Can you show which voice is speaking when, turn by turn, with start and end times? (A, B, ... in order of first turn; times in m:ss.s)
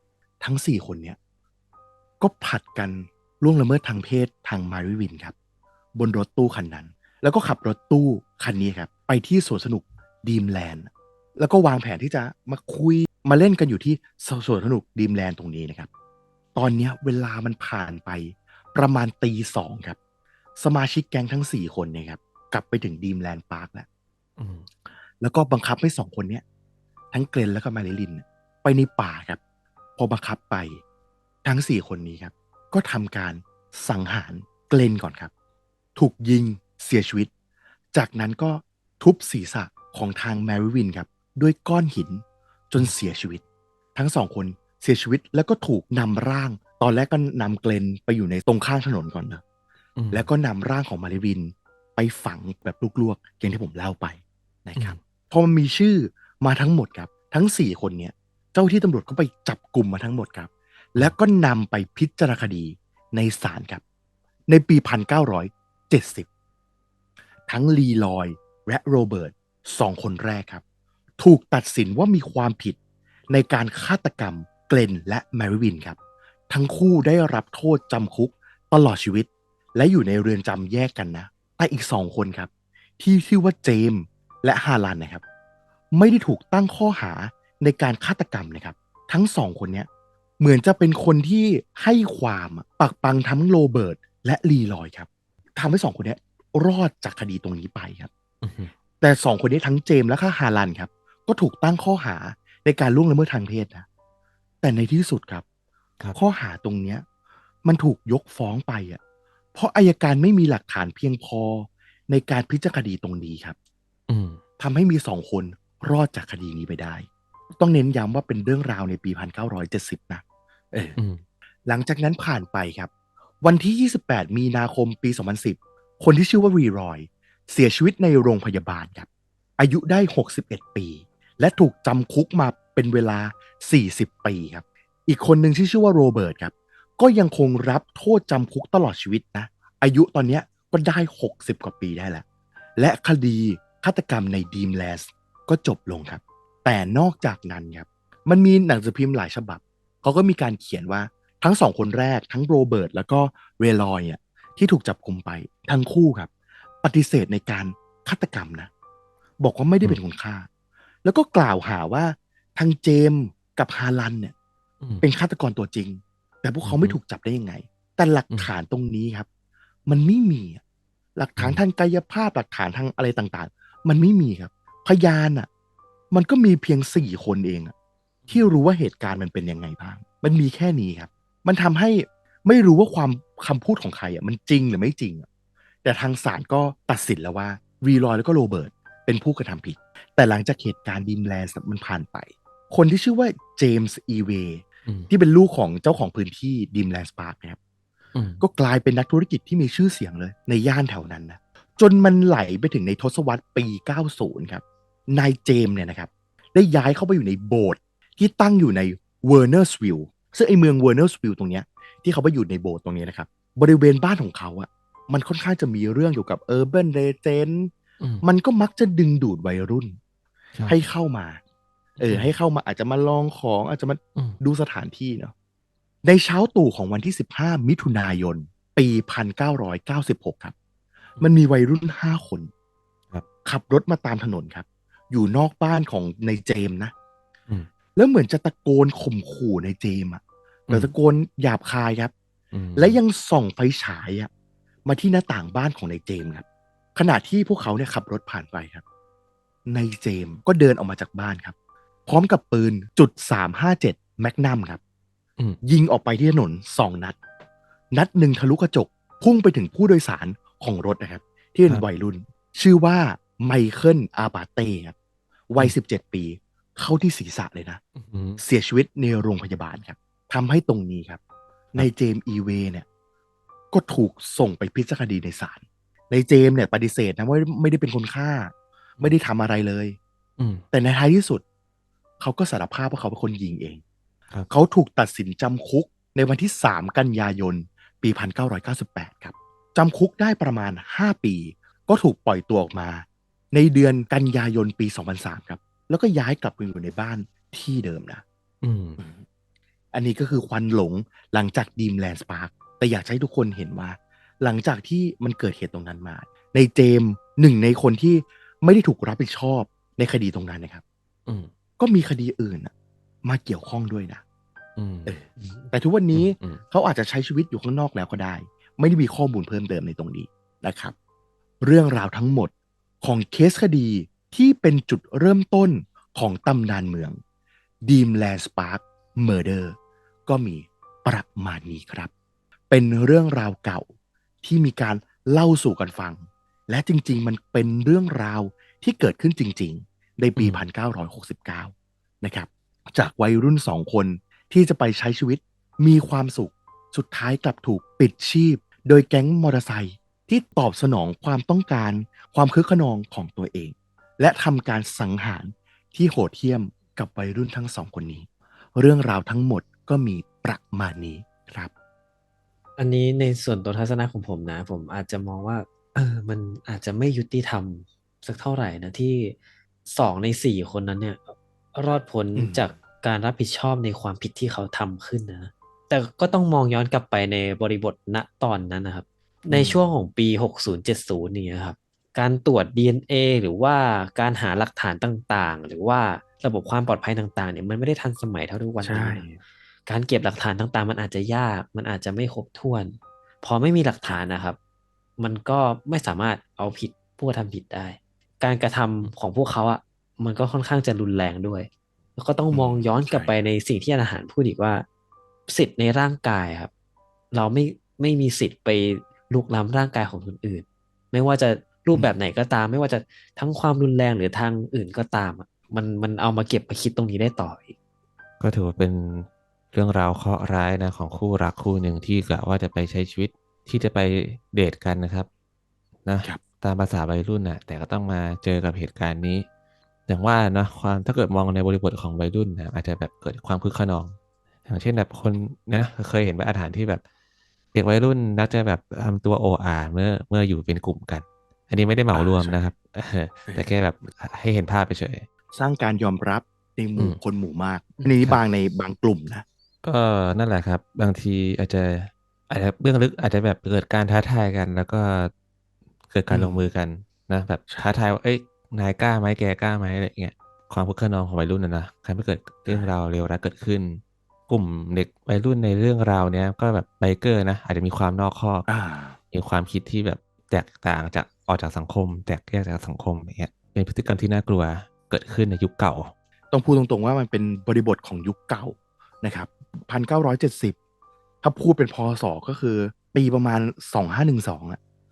0:00.4-0:01.2 A
0:02.2-0:05.3 A
0:06.0-0:15.9 A
0:16.6-0:20.0 A
0:20.6-0:23.9 A
0:24.4-0:24.6 B
0:25.2-0:26.4 A
0:27.1-0:29.4 A
0:30.0-0:30.8 A
0:31.4-0:35.3 A
0:36.0-0:37.3 A
0:37.9-0:43.4 A
0:44.0-0:49.4 A
0:50.0-0:50.3 B
0:50.1-1:03.8 A
1:04.5-1:06.3 A
1:07.5-1:10.6 A
1:11.2-1:12.8 A
1:13.3-1:16.0 A
1:16.5-1:25.2 A
1:25.9-1:29.9 A
1:30.4-1:38.1 A
1:38.4-1:38.7 B
1:39.0-1:43.9 A
1:44.6-1:45.4 A
1:46.1-1:47.0 A
1:47.6-1:49.0 A
1:49.6-1:53.6 A
1:54.1-1:54.4 B
1:54.6-2:01.0 A
2:01.0-2:01.2 B
2:01.7-2:02.9 A
2:03.4-2:22.2 A
2:22.8-2:36.3 A
2:36.8-2:38.7 A
2:39.4-2:40.5 A
2:41.0-2:44.3 A
2:45.0-2:49.3 A
2:46.6-2:47.0 B
2:49.9-2:50.6 A
2:51.2-2:55.5 A
2:56.1-2:57.7 A
2:58.2-2:58.5 B
2:58.3-3:05.3 A
3:05.8-3:17.6 A
3:18.1-3:18.4 B
3:18.4-3:37.7 A
3:38.2-3:40.0 A
3:40.6-3:41.4 A
3:42.0-3:45.3 A
3:42.0-3:42.3 B
3:46.0-3:50.5 A
3:51.2-3:52.5 A
3:53.4-3:56.9 A
3:58.0-4:02.1 A
4:02.5-4:03.0 B
4:02.8-4:04.3 A
4:04.9-4:06.4 A
4:07.0-4:08.8 A
4:09.7-4:11.5 A
4:12.1-4:14.8 A
4:15.6-4:17.2 A
4:17.9-4:24.9 A
4:25.5-4:27.8 A
4:28.0-4:28.4 B
4:28.4-4:31.2 A
4:31.7-4:32.8 A
4:33.7-4:40.0 A
4:40.4-4:40.6 B
4:40.7-4:41.4 A
4:42.2-4:43.8 A
4:44.5-4:58.2 A
4:58.6-4:59.0 B
4:59.0-4:59.2 A
4:59.9-5:10.8 A
5:11.8-5:12.7 A
5:13.3-5:14.2 A
5:14.8-5:15.2 B
5:15.1-5:20.9 A
5:16.1-5:16.6 B
5:21.6-5:27.2 A
5:27.9-5:29.8 A
5:30.3-5:32.1 A
5:32.7-5:33.9 A
5:34.4-6:01.7 A
5:40.4-5:40.6 B
6:02.8-6:09.4 C
6:09.9-6:29.3 C
6:12.4-6:12.6 A
6:19.5-6:19.9 A
6:28.8-6:29.4 A
6:29.9-6:34.6 C
6:35.2-6:44.9 C
6:42.5-6:43.3 A
6:45.5-6:46.7 C
6:47.3-6:57.8 C
6:58.4-7:05.3 B
7:06.0-7:09.4 B
7:10.1-7:17.0 B
7:17.7-7:25.3 B
7:22.1-7:22.6 A
7:25.5-7:29.4 A
7:28.0-7:28.4 B
7:29.8-7:35.3 B
7:36.1-7:48.7 B
7:36.3-7:36.6 A
7:48.7-7:49.2 A
7:49.3-7:56.1 B
7:56.5-8:00.8 A
8:01.4-8:04.8 A